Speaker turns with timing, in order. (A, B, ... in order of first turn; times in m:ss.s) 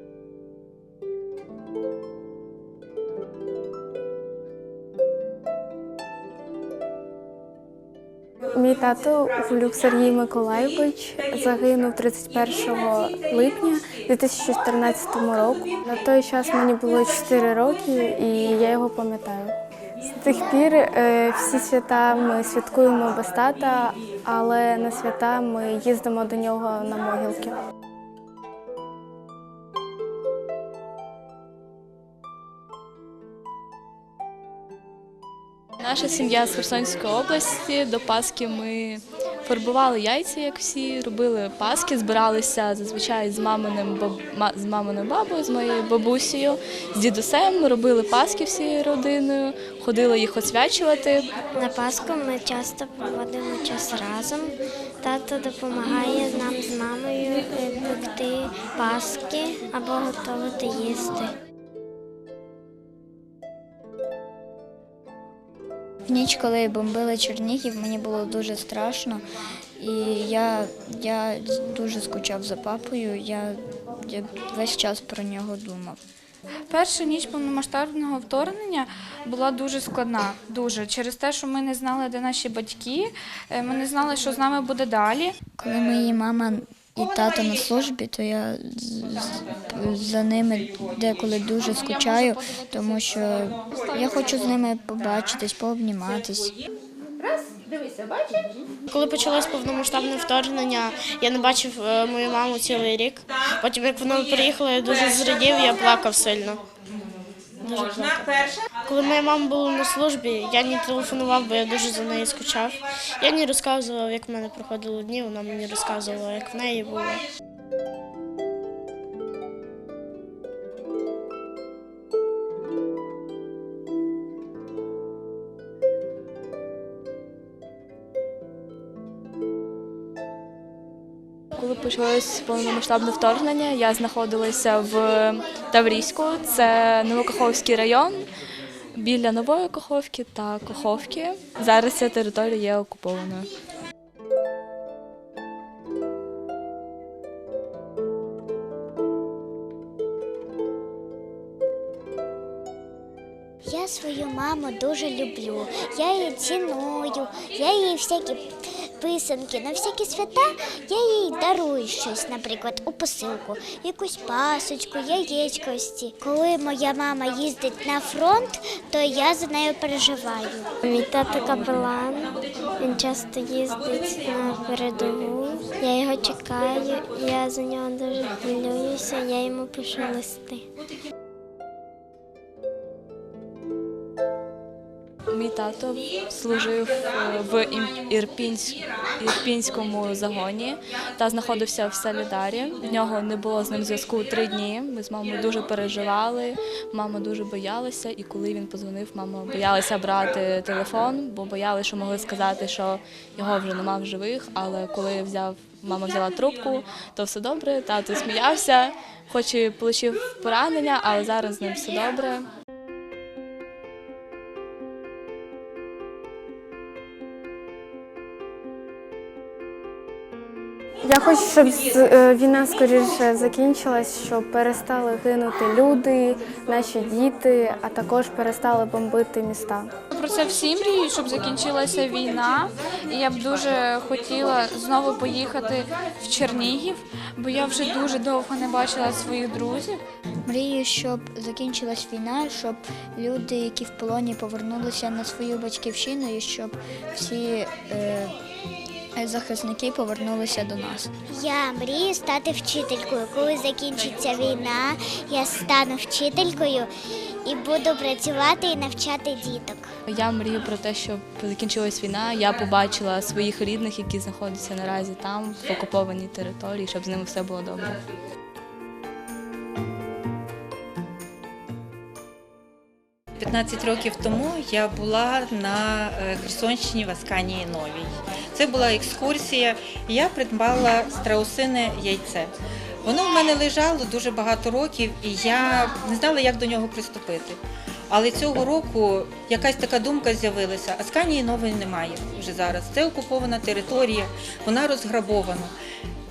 0:08.5-0:27.6 A
0:35.8-0:51.3 B
0:51.6-1:01.4 C
1:06.1-1:09.2 D
1:09.8-1:16.0 D
1:16.7-1:25.4 E
1:25.6-1:36.6 D
1:31.9-1:32.9 E
1:38.9-1:46.6 F
1:47.6-1:57.2 F
2:11.6-2:18.3 B
2:18.9-2:23.5 B
2:33.6-3:00.7 C
3:05.3-3:32.5 B
3:41.0-3:49.9 A
3:50.2-4:00.0 E
4:00.4-4:08.3 D
4:09.2-4:11.2 D
4:11.3-4:16.9 C
4:17.4-4:19.9 C
4:20.1-4:28.0 B
4:33.4-4:42.5 G
4:43.0-4:55.7 G